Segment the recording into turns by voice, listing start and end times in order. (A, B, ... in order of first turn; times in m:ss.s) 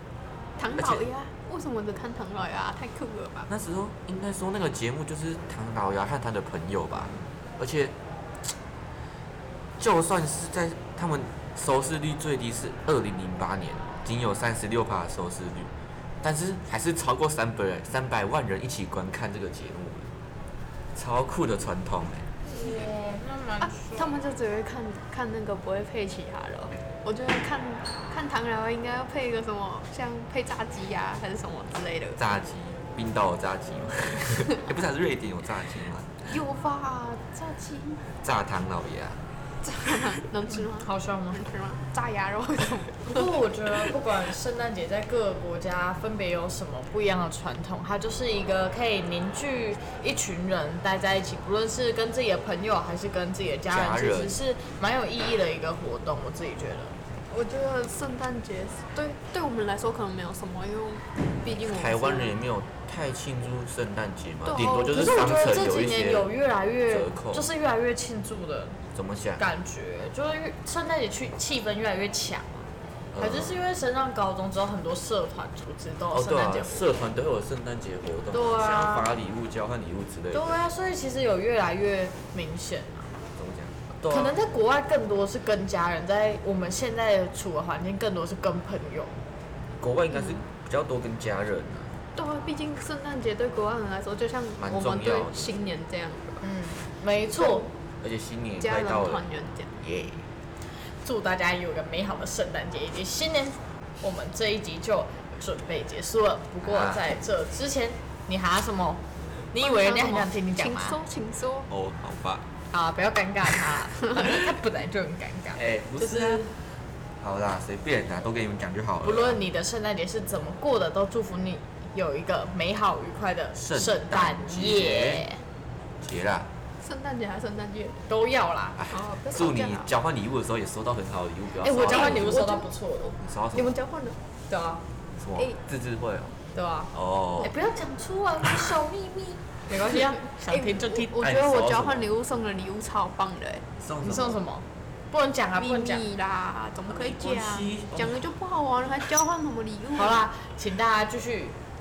0:00.6-0:03.5 A
0:00.7-0:01.0 B
0:03.5-0:07.9 B
0:09.8-0:15.7 B
0:16.2-0:20.1 B
0:20.9-0:22.3 B
0:22.5-0:24.2 C
0:23.6-0:32.2 A
0:32.2-0:36.4 B
0:36.3-0:38.0 A
0:38.2-0:39.2 B
0:39.6-0:43.3 A
0:40.5-0:41.4 C
0:43.0-0:57.0 C
0:53.7-0:54.4 B
0:57.3-1:02.3 A
1:01.5-1:06.3 B
1:04.4-1:05.0 A
1:04.7-1:08.8 C
1:06.9-1:07.5 B
1:08.9-1:09.5 B
1:09.4-1:16.9 C
1:13.1-1:13.5 B
1:16.1-1:20.6 B
1:18.3-1:19.1 C
1:20.3-1:23.2 C
1:23.4-1:24.4 B
1:24.1-1:29.2 C
1:29.8-1:32.0 B
1:32.2-1:36.4 A
1:34.6-1:35.5 B
1:36.4-1:37.7 C
1:37.4-1:37.7 A
1:38.0-1:39.3 B
1:38.6-1:39.8 A
1:39.8-1:40.3 B
1:41.0-1:51.0 C
1:46.6-1:47.0 B
1:49.6-1:51.7 A
1:51.7-1:52.5 B
1:52.7-1:56.5 C
1:55.5-1:56.4 B
1:57.2-1:59.4 B
1:59.0-2:05.4 C
2:03.6-2:05.3 B
2:06.0-2:06.5 B
2:06.8-2:08.0 A
2:08.1-2:08.8 C
2:08.8-2:12.4 B
2:08.9-2:09.9 A
2:11.6-2:13.2 C
2:11.9-2:12.7 A
2:13.2-2:13.7 B
2:13.5-2:14.2 A
2:14.5-2:14.8 C
2:15.2-2:16.4 B
2:16.5-2:21.2 C
2:16.9-2:17.6 B
2:20.2-2:23.6 A
2:21.2-2:22.1 B
2:23.8-2:24.4 B
2:24.0-2:26.1 C
2:25.6-2:30.3 A
2:26.9-2:28.3 B
2:29.9-2:31.6 C